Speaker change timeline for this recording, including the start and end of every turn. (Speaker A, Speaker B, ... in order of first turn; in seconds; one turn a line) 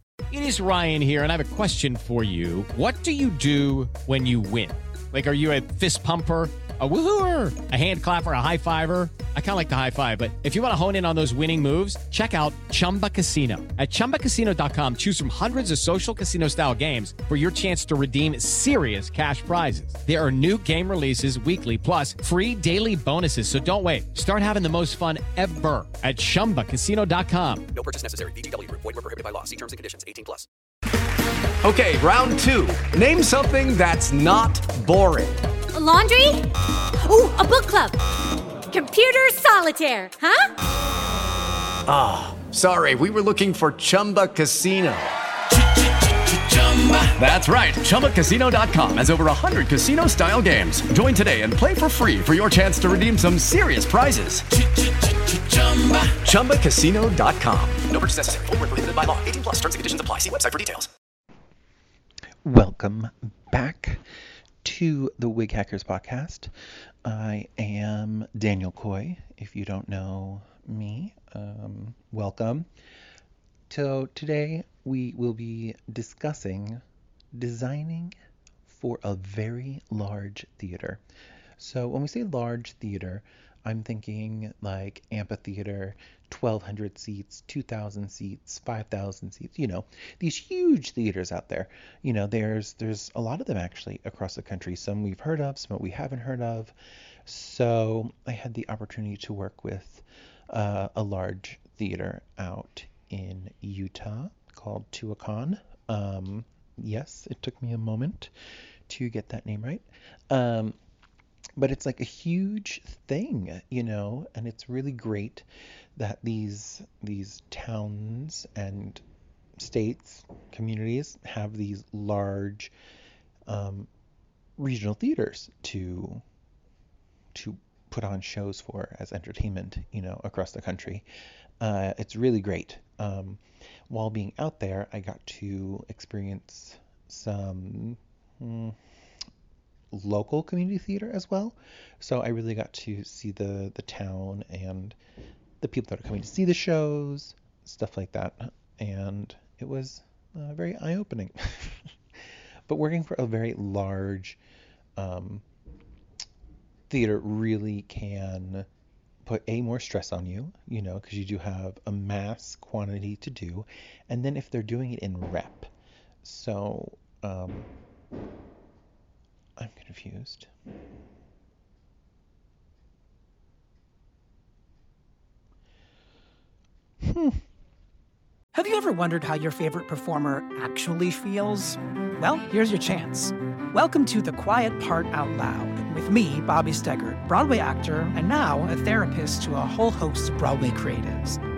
Speaker A: 0.3-27.6
Speaker B: 27.7-30.4
Speaker C: 31.6-35.4
Speaker D: 35.8-36.4
Speaker D: 37.0-37.9
Speaker D: 38.7-40.4
Speaker C: 41.9-45.1
Speaker C: 46.3-54.5
Speaker C: 55.3-57.9
Speaker B: 57.9-60.6
Speaker C: 60.0-60.9
Speaker E: 62.4-64.0
Speaker E: 64.6-66.5
Speaker E: 67.0-72.7
Speaker E: 73.7-76.8
Speaker E: 77.3-78.1
Speaker E: 78.7-81.0
Speaker E: 81.6-96.7
Speaker E: 97.2-108.3
Speaker E: 108.9-110.8
Speaker E: 111.6-115.4
Speaker E: 116.0-119.0
Speaker E: 119.6-122.7
Speaker E: 123.5-123.9
Speaker E: 124.6-126.2
Speaker E: 127.3-131.0
Speaker E: 131.6-138.8
Speaker E: 139.9-145.0
Speaker E: 145.6-151.9
Speaker E: 152.7-154.4
Speaker E: 155.0-155.4
Speaker E: 156.9-158.7
Speaker E: 159.2-165.7
Speaker E: 166.2-167.7
Speaker E: 169.6-170.5
Speaker E: 177.0-177.4
Speaker F: 178.5-191.4